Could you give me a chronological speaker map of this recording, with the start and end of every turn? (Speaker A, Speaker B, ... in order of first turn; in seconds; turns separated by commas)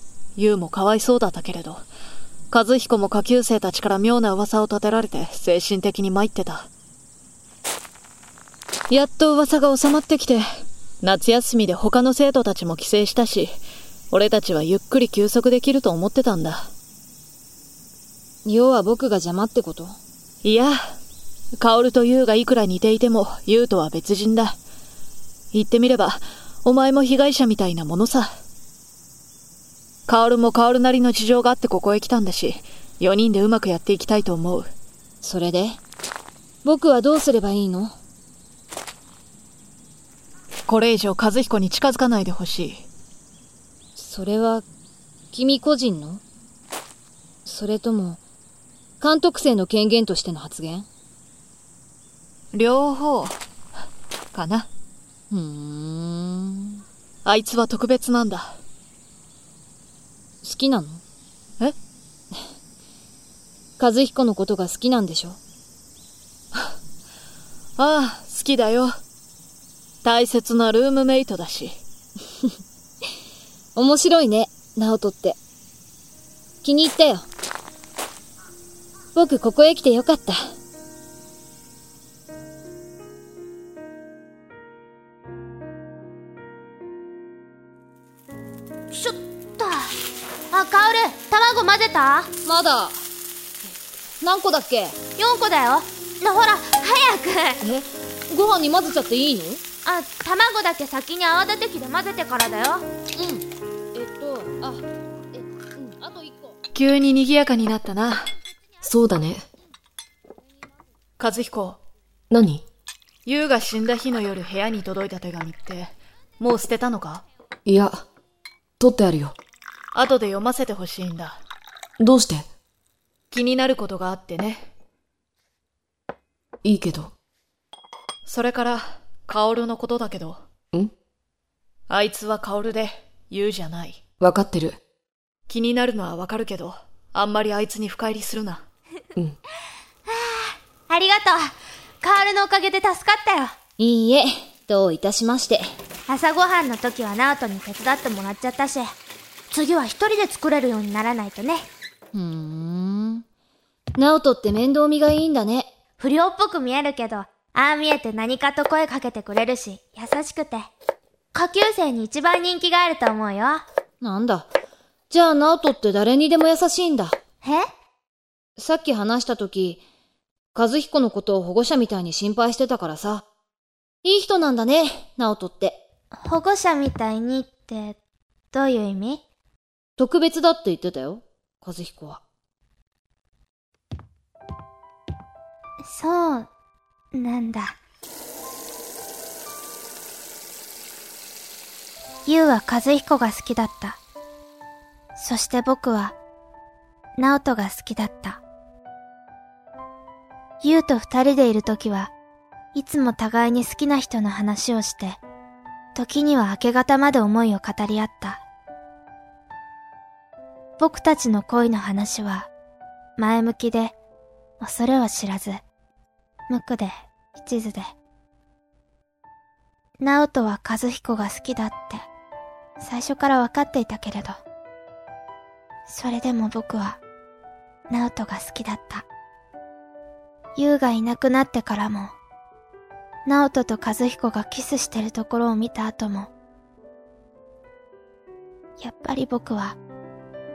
Speaker A: 0.4-1.8, Speaker A: 2.5-6.7, Speaker A: 8.9-10.4, Speaker A: 11.0-13.6, Speaker A: 14.1-16.7, Speaker B: 18.4-20.0, Speaker A: 20.4-20.9, Speaker A: 21.6-24.6, Speaker A: 25.5-28.3, Speaker A: 30.1-34.7, Speaker B: 35.2-35.8, Speaker B: 36.6-38.0, Speaker A: 40.7-42.9, Speaker B: 44.0-44.6, Speaker B: 45.3-46.2, Speaker B: 47.4-48.2, Speaker B: 49.0-50.9, Speaker A: 52.5-53.4, Speaker A: 54.3-54.7, Speaker B: 55.3-56.8, Speaker A: 57.2-58.6, Speaker B: 60.4-61.0, Speaker B: 63.8-65.4, Speaker A: 67.8-68.9, Speaker A: 70.0-71.8, Speaker B: 73.8-75.4, Speaker B: 76.6-77.3, Speaker B: 79.2-80.5, Speaker C: 88.9-89.9, Speaker C: 90.5-92.3, Speaker B: 92.4-93.0, Speaker B: 93.6-95.0, Speaker C: 95.2-97.6, Speaker B: 97.6-99.6, Speaker C: 99.8-102.9, Speaker B: 103.2-106.6, Speaker A: 106.7-108.3, Speaker D: 108.8-109.4, Speaker A: 111.2-111.8, Speaker D: 112.3-112.7, Speaker A: 113.2-117.2, Speaker D: 117.7-118.0, Speaker D: 118.8-119.3, Speaker A: 119.9-121.4, Speaker D: 122.0-122.5, Speaker A: 123.3-124.7, Speaker D: 126.6-127.1, Speaker A: 128.3-130.4, Speaker A: 131.9-134.0, Speaker D: 134.2-134.8, Speaker A: 135.5-138.6, Speaker C: 140.1-143.6, Speaker B: 143.8-145.6, Speaker C: 146.1-148.9, Speaker C: 149.5-151.7, Speaker B: 152.1-153.2, Speaker B: 153.9-155.7, Speaker C: 156.0-160.7, Speaker C: 161.3-163.7, Speaker B: 164.0-164.5, Speaker B: 165.1-167.2, Speaker B: 168.6-169.8, Speaker B: 170.5-173.2, Speaker B: 174.0-175.8, Speaker C: 176.1-178.0, Speaker C: 178.5-179.2, Speaker B: 180.0-182.2, Speaker C: 185.8-186.5, Speaker C: 187.1-187.8, Speaker C: 192.3-194.0, Speaker C: 195.2-196.2, Speaker C: 197.2-198.4, Speaker C: 200.6-202.1, Speaker C: 202.7-205.2, Speaker C: 205.9-208.4, Speaker C: 210.8-212.5, Speaker C: 213.2-213.9, Speaker C: 214.6-215.6, Speaker C: 216.5-217.9, Speaker C: 220.0-222.1, Speaker C: 222.8-224.4, Speaker C: 225.9-227.0, Speaker C: 227.9-229.1, Speaker C: 230.6-232.2, Speaker C: 233.3-236.3, Speaker C: 238.8-239.8